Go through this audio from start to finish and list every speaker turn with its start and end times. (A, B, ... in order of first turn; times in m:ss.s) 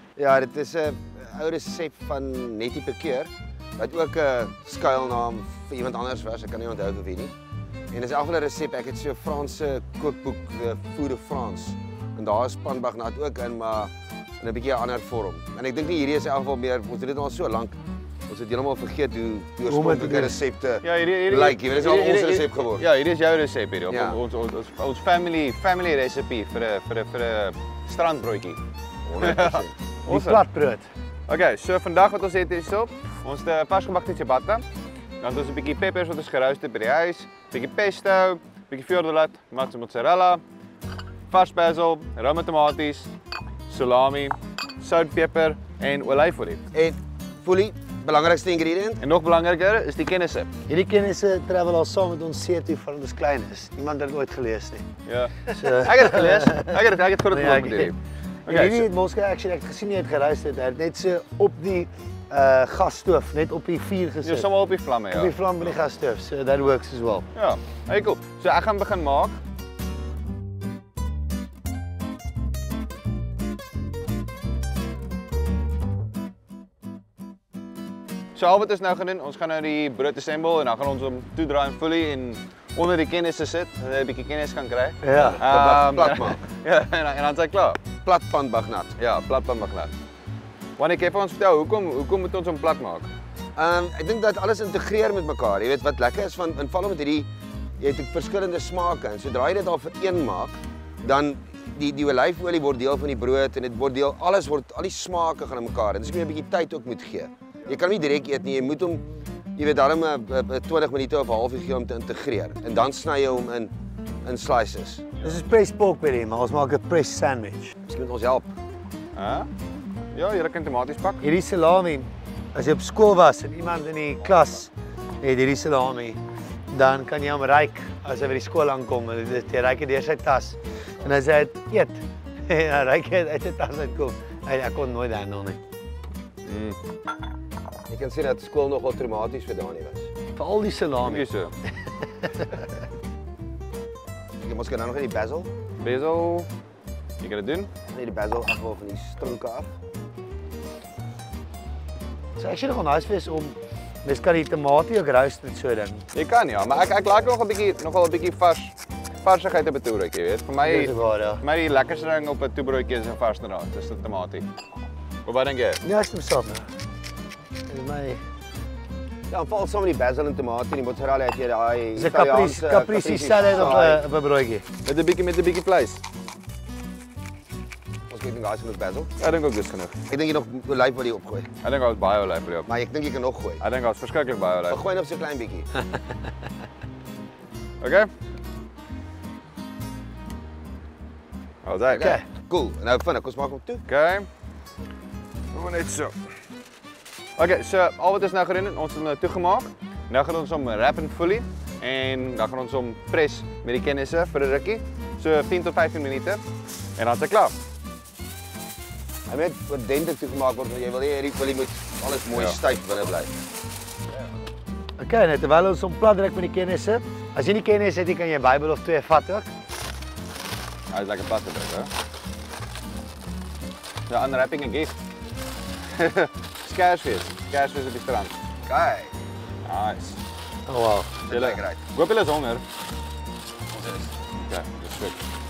0:00.2-0:07.3 A
0:07.9-0:22.8 A
0:19.7-0:20.4 B
0:20.8-0:28.6 C
0:23.9-0:24.2 A
0:29.0-0:29.7 A
0:29.2-0:30.4 C
0:30.1-0:30.9 B
0:31.3-0:34.6 C
0:35.2-0:40.4 C
0:41.3-0:43.1 C
0:43.7-0:46.6 C
0:46.7-0:49.0 A
0:49.0-0:50.5 C
0:50.7-0:54.9 B
0:55.0-0:58.9 C
0:55.4-0:56.8 B
0:57.3-0:57.9 B
0:58.4-1:04.5 B
1:04.2-1:05.8 C
1:05.1-1:07.3 B
1:07.3-1:09.4 C
1:18.3-1:27.8 C
1:25.0-1:25.4 B
1:25.1-1:26.4 A
1:28.0-1:29.0 A
1:29.0-1:29.9 C
1:30.8-1:33.1 C
1:33.6-1:37.3 A
1:37.8-1:49.0 A
1:49.6-1:53.7 A
1:54.2-1:55.1 A
1:55.2-1:57.7 B
1:57.8-1:58.5 A
1:59.2-1:59.5 C
2:00.1-2:01.2 C
2:01.2-2:06.2 B
2:06.7-2:15.6 B
2:16.4-2:16.8 C
2:17.9-2:20.1 A
2:20.4-2:21.3 B
2:21.0-2:21.5 C
2:22.2-2:22.6 B
2:24.4-2:25.5 A
2:25.8-2:26.5 C
2:27.2-2:27.7 C
2:27.9-2:29.7 A
2:32.4-2:36.1 B
2:36.1-2:44.5 C
2:40.6-2:41.4 B
2:45.2-2:45.8 C
2:45.8-2:46.6 B
2:47.7-2:48.2 B
2:49.3-2:54.0 A
2:52.0-2:54.6 B
2:54.8-2:56.0 C
2:58.1-2:59.1 A
2:59.2-3:00.0 C
3:00.1-3:01.5 A
3:01.6-3:02.7 C
3:02.6-3:03.6 A
3:03.6-3:04.8 C
3:04.7-3:05.7 A
3:07.8-3:08.1 C
3:11.6-3:12.2 C
3:11.9-3:13.8 A
3:13.9-3:14.3 C
3:15.5-3:16.2 C
3:17.4-3:26.4 C
3:27.0-3:27.5 C
3:29.3-3:33.3 A
3:35.0-3:39.5 B
3:40.9-3:41.9 C
3:44.1-3:44.9 C
3:45.9-3:48.4 C
3:48.6-3:49.1 A
3:49.6-3:50.2 C
3:50.7-3:51.1 B
3:51.2-3:51.9 A
3:51.3-3:52.6 C
3:53.7-3:54.0 A
3:54.4-3:55.2 C